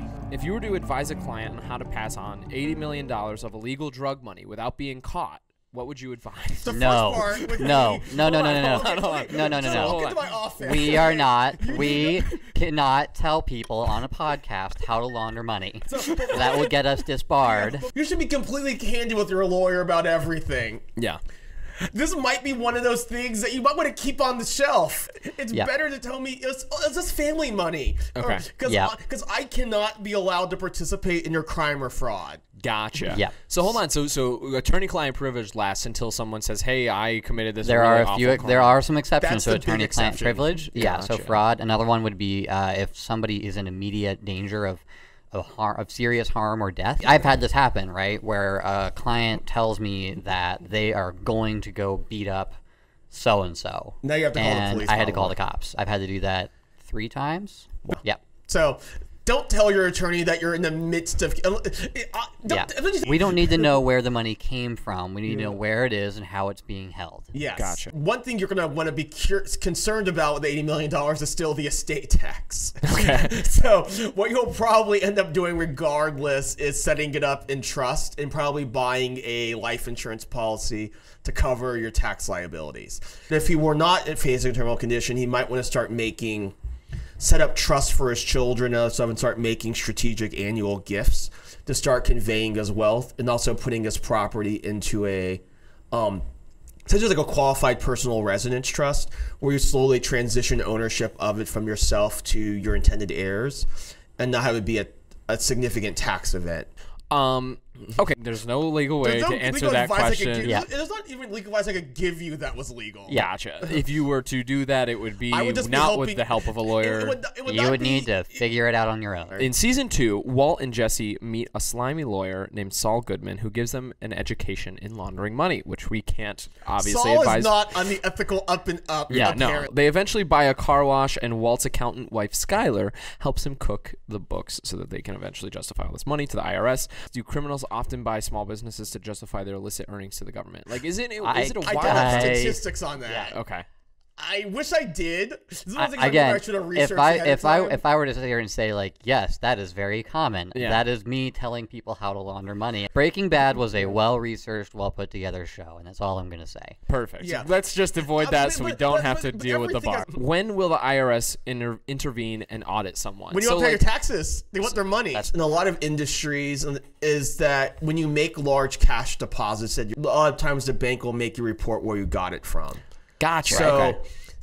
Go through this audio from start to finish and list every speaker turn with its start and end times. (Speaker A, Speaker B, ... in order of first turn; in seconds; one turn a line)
Speaker A: 0.3-7.7
Speaker B: 6.6-12.3
Speaker C: 6.7-17.9
Speaker A: 8.5-11.1
Speaker A: 11.7-12.2
Speaker B: 15.8-16.8
Speaker B: 17.4-20.9
Speaker A: 21.0-21.2
Speaker B: 21.8-32.4
Speaker A: 28.1-28.5
Speaker C: 28.6-28.9
Speaker A: 32.6-38.8
Speaker C: 37.6-52.6
Speaker B: 39.2-40.6
Speaker A: 40.7-41.4
Speaker B: 47.0-47.3
Speaker C: 53.1-58.2
Speaker B: 54.0-55.4
Speaker B: 57.9-63.8
Speaker C: 62.5-67.3
Speaker B: 65.3-65.6
Speaker B: 67.3-86.5
Speaker A: 67.6-67.9
Speaker A: 72.9-73.3
Speaker B: 87.2-96.2
Speaker B: 96.9-106.7
Speaker A: 107.1-110.6
Speaker B: 109.0-113.8
Speaker C: 110.4-110.7
Speaker C: 113.1-113.3
Speaker A: 113.1-117.2
Speaker B: 115.3-118.5
Speaker C: 117.5-119.4
Speaker A: 119.4-127.7
Speaker B: 126.8-129.7
Speaker A: 129.1-142.5
Speaker C: 141.2-143.3
Speaker B: 141.6-143.4
Speaker A: 143.3-143.7
Speaker B: 144.2-147.8
Speaker C: 145.8-156.8
Speaker A: 150.5-150.8
Speaker A: 156.9-163.8
Speaker B: 157.2-157.5
Speaker B: 158.2-160.2
Speaker B: 163.3-172.8
Speaker A: 173.2-174.0
Speaker B: 173.4-174.0
Speaker C: 173.5-173.9